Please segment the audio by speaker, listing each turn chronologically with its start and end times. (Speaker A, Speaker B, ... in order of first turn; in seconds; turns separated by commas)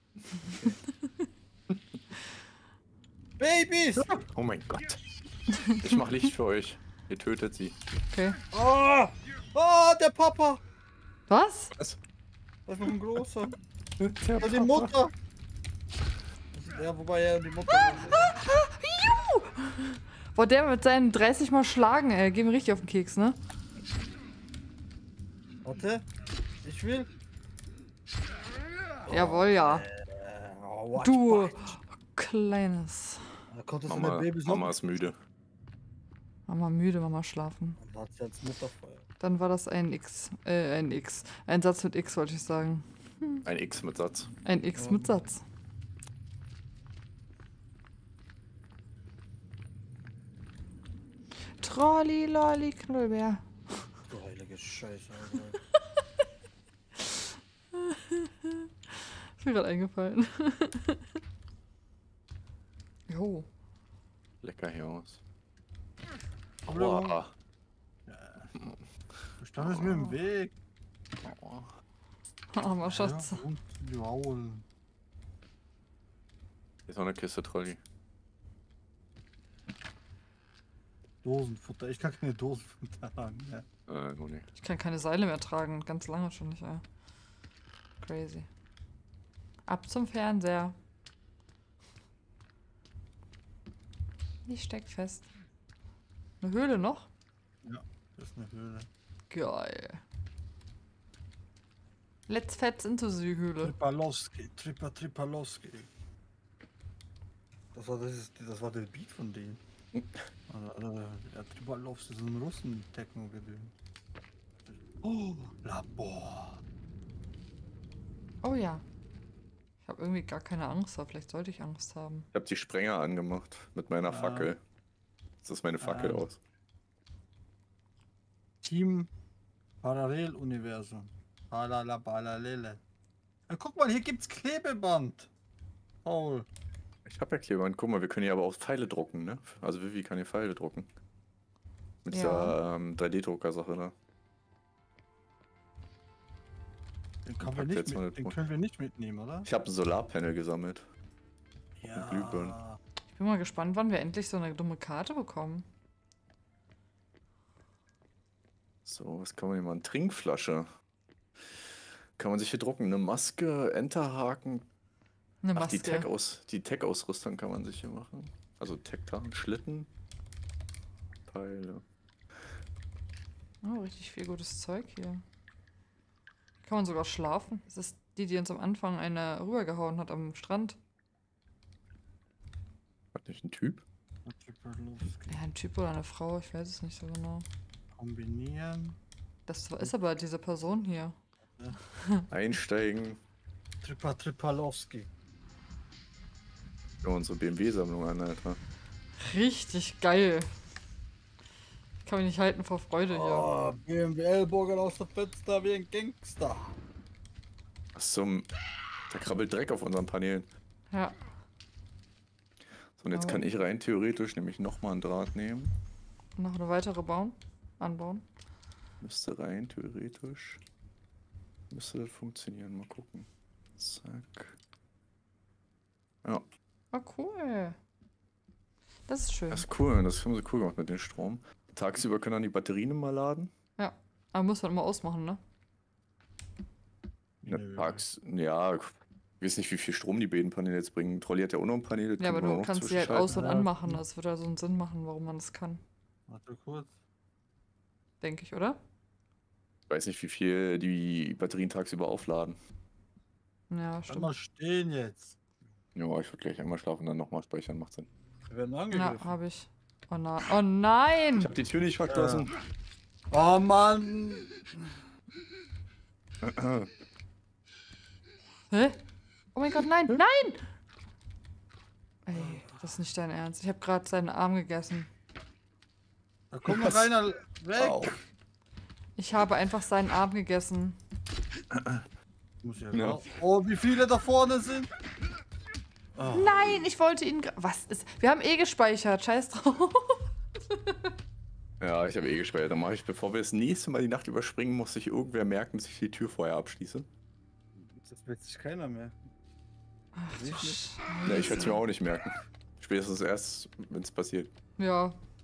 Speaker A: 3.4-4.1, Speaker B: 4.0-7.8, Speaker C: 8.1-8.4, Speaker A: 8.5-10.6, Speaker C: 11.3-11.7, Speaker A: 12.7-13.6, Speaker B: 14.0-14.9, Speaker A: 14.4-15.1, Speaker A: 16.5-18.3, Speaker C: 18.1-23.4, Speaker A: 25.6-26.1, Speaker A: 26.6-27.1, Speaker A: 29.0-31.7, Speaker C: 29.1-29.9, Speaker C: 31.0-33.3, Speaker A: 33.5-34.8, Speaker B: 33.9-35.2, Speaker C: 36.5-37.8, Speaker A: 37.8-39.0, Speaker C: 39.2-43.4, Speaker B: 43.5-44.3, Speaker C: 44.4-45.4, Speaker A: 44.8-45.1, Speaker C: 51.6-53.5, Speaker A: 54.1-55.6, Speaker C: 57.8-58.7, Speaker C: 59.4-61.0, Speaker C: 63.1-63.5, Speaker B: 64.4-65.2, Speaker B: 66.7-67.3, Speaker A: 66.7-67.2, Speaker A: 68.1-68.5, Speaker A: 69.4-70.5, Speaker B: 69.6-70.0, Speaker B: 71.2-71.7, Speaker C: 72.5-73.4, Speaker A: 72.8-74.6, Speaker B: 76.9-77.8, Speaker A: 81.2-83.7, Speaker B: 83.9-84.5, Speaker C: 84.6-86.8, Speaker C: 88.0-88.5, Speaker C: 89.7-90.8, Speaker C: 94.5-95.3, Speaker C: 96.4-97.1, Speaker A: 97.7-98.9, Speaker C: 99.3-100.0, Speaker C: 102.3-103.8, Speaker A: 103.6-105.9, Speaker A: 107.7-109.6, Speaker A: 110.5-113.7, Speaker A: 114.7-116.6, Speaker C: 118.4-118.8, Speaker C: 119.8-122.3, Speaker B: 122.3-124.6, Speaker A: 124.1-124.5, Speaker B: 125.4-126.4, Speaker A: 125.8-126.3, Speaker A: 128.6-129.1, Speaker A: 129.8-132.8, Speaker A: 133.5-135.3, Speaker A: 136.1-136.5, Speaker B: 137.1-140.9, Speaker B: 142.1-143.9, Speaker C: 142.1-142.6, Speaker A: 147.2-149.5, Speaker B: 147.4-148.4, Speaker B: 149.4-150.9, Speaker A: 151.8-152.8, Speaker B: 151.9-152.6, Speaker C: 153.1-155.7, Speaker B: 158.9-160.7, Speaker B: 162.2-164.7, Speaker C: 165.4-166.1, Speaker B: 165.6-169.9, Speaker B: 171.3-171.8, Speaker C: 173.6-175.2, Speaker C: 176.6-180.8, Speaker B: 183.2-183.8, Speaker A: 184.3-185.4, Speaker C: 185.3-187.5, Speaker A: 188.0-189.0, Speaker C: 189.5-191.2, Speaker C: 191.8-192.3, Speaker B: 192.3-193.2, Speaker A: 193.8-195.1, Speaker B: 197.0-198.6, Speaker C: 199.2-200.5, Speaker C: 202.0-203.5, Speaker A: 203.1-206.8, Speaker B: 207.9-208.5, Speaker B: 209.1-210.5, Speaker C: 210.9-211.2, Speaker B: 213.0-215.7, Speaker C: 213.1-213.4, Speaker C: 216.4-218.2, Speaker B: 219.0-220.6, Speaker B: 221.7-223.3, Speaker B: 223.8-224.6, Speaker C: 226.9-227.8, Speaker C: 229.1-229.7, Speaker B: 229.5-233.5, Speaker C: 233.8-235.4, Speaker A: 237.4-238.0, Speaker B: 237.5-243.5, Speaker C: 242.2-245.8, Speaker A: 243.2-244.0, Speaker A: 246.3-246.9, Speaker C: 248.2-248.8, Speaker B: 249.9-252.6, Speaker C: 253.7-254.3, Speaker A: 254.1-255.4, Speaker B: 255.9-258.1, Speaker A: 258.5-259.3, Speaker C: 258.9-261.5, Speaker B: 261.4-262.5, Speaker A: 262.1-262.5, Speaker A: 263.3-264.9, Speaker B: 266.4-266.9, Speaker C: 268.7-269.0, Speaker C: 269.5-270.6, Speaker C: 272.3-275.1, Speaker A: 272.3-272.7, Speaker A: 276.5-278.2, Speaker B: 276.7-277.2, Speaker B: 277.8-278.2, Speaker C: 279.2-281.0, Speaker B: 281.7-282.0, Speaker A: 282.6-284.9, Speaker B: 282.9-283.2, Speaker A: 286.2-286.7, Speaker C: 286.3-291.1, Speaker B: 291.8-297.1, Speaker A: 297.8-299.2, Speaker C: 300.1-301.8, Speaker A: 300.3-300.8, Speaker B: 301.2-304.5, Speaker C: 304.8-305.1